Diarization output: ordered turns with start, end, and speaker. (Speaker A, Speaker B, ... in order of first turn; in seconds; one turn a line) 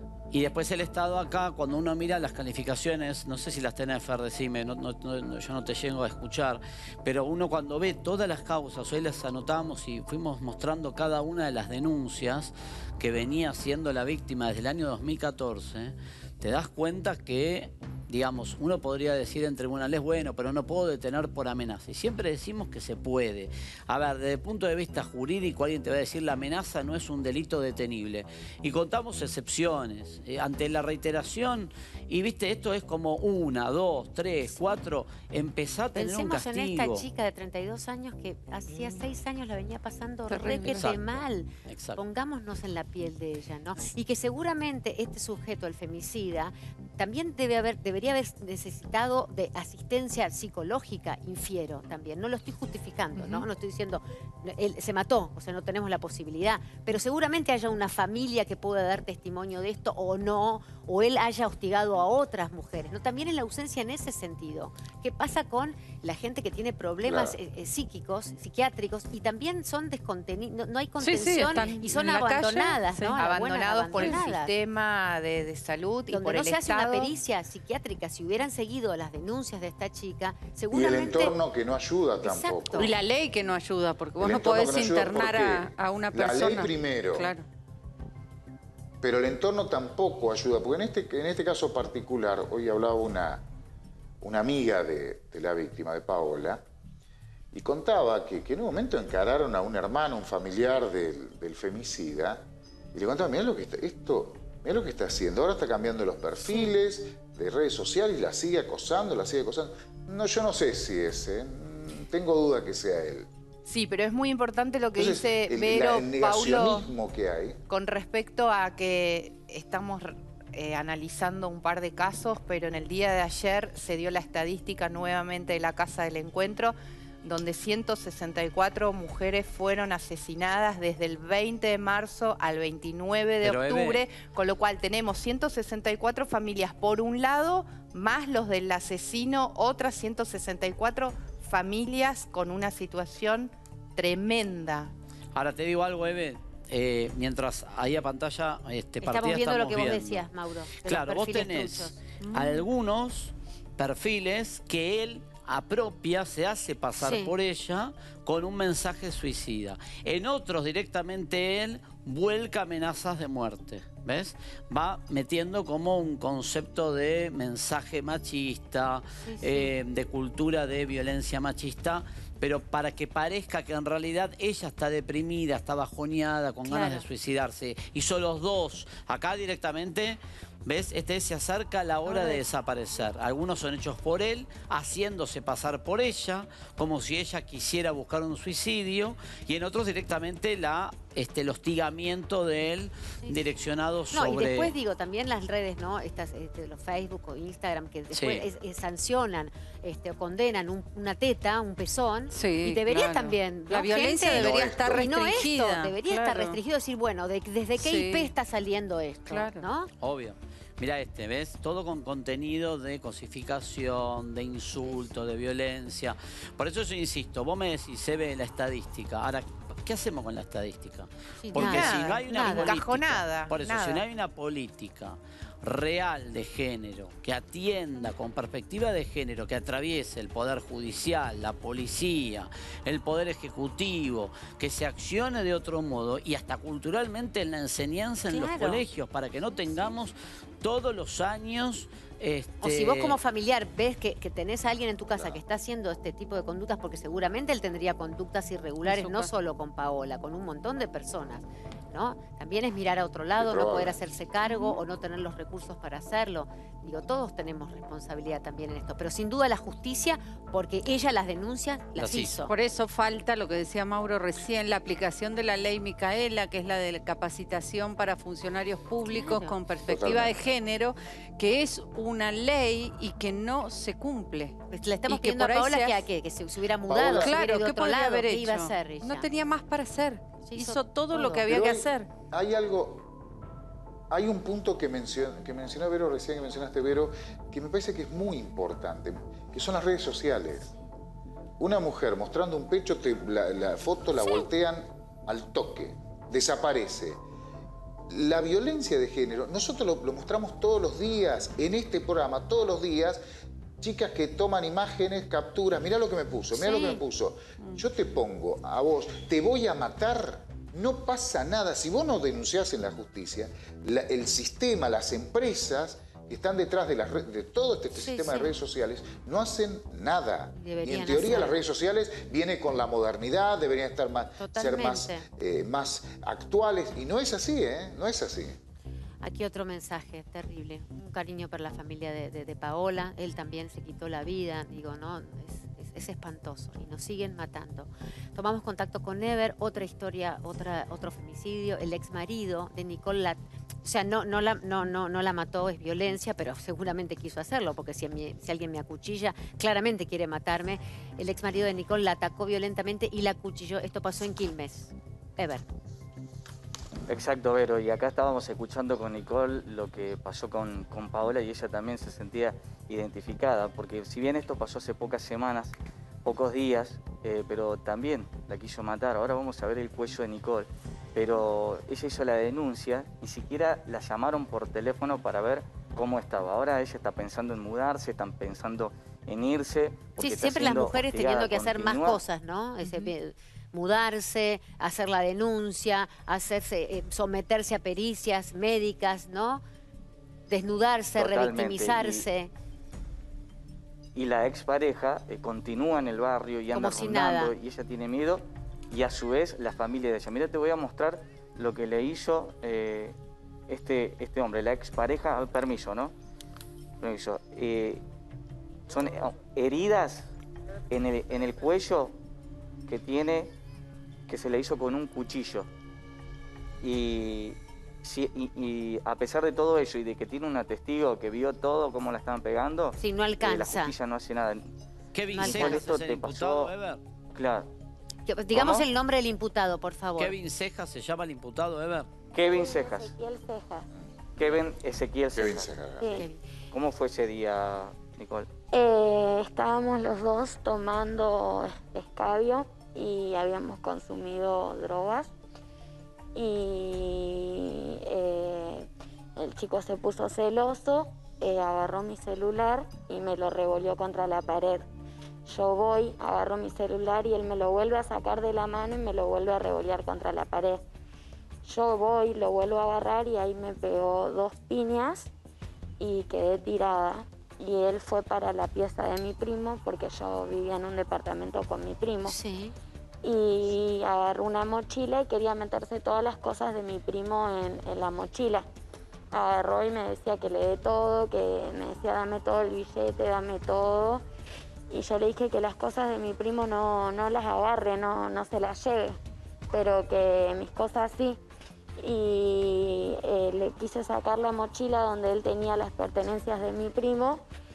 Speaker A: 0.3-37.0
Speaker B: 35.9-74.5
Speaker C: 40.3-40.9
Speaker A: 40.6-42.0
Speaker D: 67.0-67.3
Speaker C: 71.0-73.2
Speaker E: 73.2-77.1
Speaker C: 74.0-74.2
Speaker B: 76.1-81.3
Speaker D: 80.7-82.9
Speaker B: 82.2-82.9
Speaker C: 82.8-87.4
Speaker D: 84.2-87.3
Speaker D: 89.0-93.4
Speaker D: 94.2-96.6
Speaker D: 97.5-113.3
Speaker E: 113.6-116.9
Speaker D: 114.9-117.6
Speaker E: 117.7-144.9
Speaker A: 133.4-134.0
Speaker A: 145.3-150.2
Speaker B: 149.0-152.0
Speaker A: 150.8-194.7
Speaker B: 157.0-157.3
Speaker B: 169.2-169.7
Speaker B: 176.7-177.0
Speaker B: 182.1-182.4
Speaker B: 194.1-209.9
Speaker A: 198.1-198.4
Speaker C: 202.3-206.6
Speaker C: 207.8-208.3
Speaker C: 209.3-209.6
Speaker A: 210.0-243.2
Speaker B: 221.4-222.8
Speaker E: 221.6-224.0
Speaker B: 238.3-238.8
Speaker B: 242.6-262.5
Speaker C: 248.8-249.3
Speaker D: 253.4-253.9
Speaker A: 262.0-262.4
Speaker C: 262.5-274.6
Speaker B: 269.1-269.5
Speaker D: 269.9-270.3
Speaker B: 274.7-279.3
Speaker C: 275.1-276.0
Speaker D: 276.9-277.3
Speaker C: 277.1-282.1
Speaker B: 280.4-281.5
Speaker D: 281.5-283.1
Speaker D: 284.1-290.7
Speaker D: 291.6-297.2
Speaker B: 294.1-294.5
Speaker D: 298.1-303.2
Speaker D: 303.8-328.6
Speaker B: 306.6-307.0
Speaker B: 317.9-318.6
Speaker B: 320.6-321.6
Speaker B: 324.4-325.2
Speaker B: 329.2-355.7
Speaker F: 357.1-382.2
Speaker B: 380.2-389.6
Speaker C: 382.8-383.1
Speaker B: 390.5-392.5
Speaker F: 391.2-392.2
Speaker F: 394.1-403.1
Speaker B: 396.7-397.5
Speaker F: 403.7-406.1
Speaker F: 407.0-408.0
Speaker F: 408.9-410.3
Speaker F: 410.9-412.1
Speaker F: 412.9-413.5
Speaker F: 414.3-415.7
Speaker F: 416.8-424.7
Speaker B: 423.0-423.9
Speaker A: 425.1-427.0
Speaker B: 425.3-426.0
Speaker F: 425.4-426.7
Speaker F: 427.3-427.7
Speaker B: 428.2-430.3
Speaker F: 428.5-428.9
Speaker A: 430.2-432.1
Speaker F: 432.3-433.1
Speaker G: 432.4-433.9
Speaker D: 434.0-434.6
Speaker F: 434.4-435.9
Speaker D: 435.3-436.2
Speaker G: 436.0-436.2
Speaker B: 436.1-436.4
Speaker F: 436.7-438.5
Speaker G: 438.7-445.3
Speaker G: 446.3-454.9
Speaker G: 455.4-460.8
Speaker G: 461.6-465.3
Speaker G: 466.0-472.3
Speaker B: 472.3-472.7
Speaker G: 473.2-478.6
Speaker G: 479.3-484.2
Speaker G: 484.9-489.2
Speaker G: 489.7-491.4
Speaker G: 492.0-497.4